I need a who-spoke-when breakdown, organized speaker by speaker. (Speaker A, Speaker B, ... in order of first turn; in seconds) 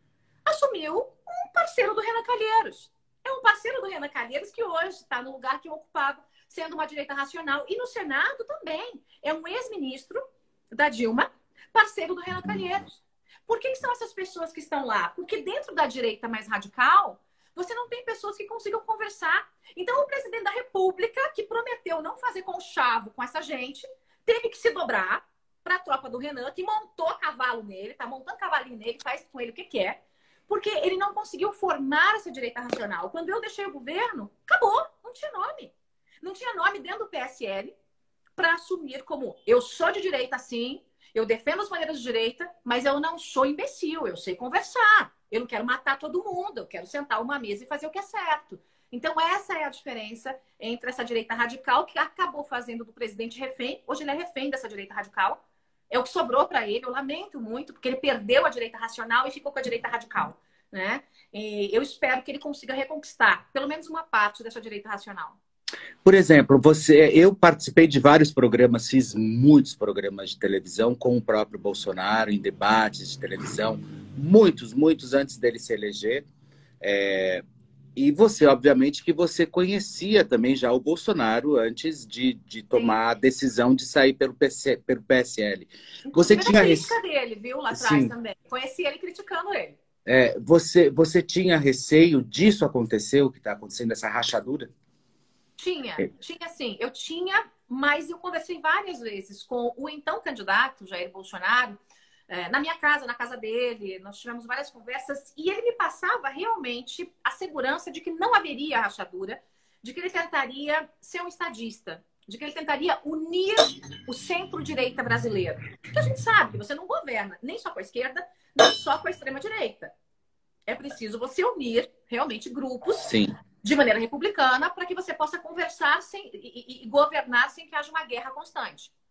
Speaker A: 0.5-10.2, 10.7-37.7, 38.4-55.4, 55.9-65.4, 86.1-89.8, 95.6-101.8, 102.3-119.9, 120.7-128.9
Speaker B: 66.0-76.2, 76.8-77.4, 78.0-87.0, 87.7-88.1, 90.0-94.7, 123.0-123.3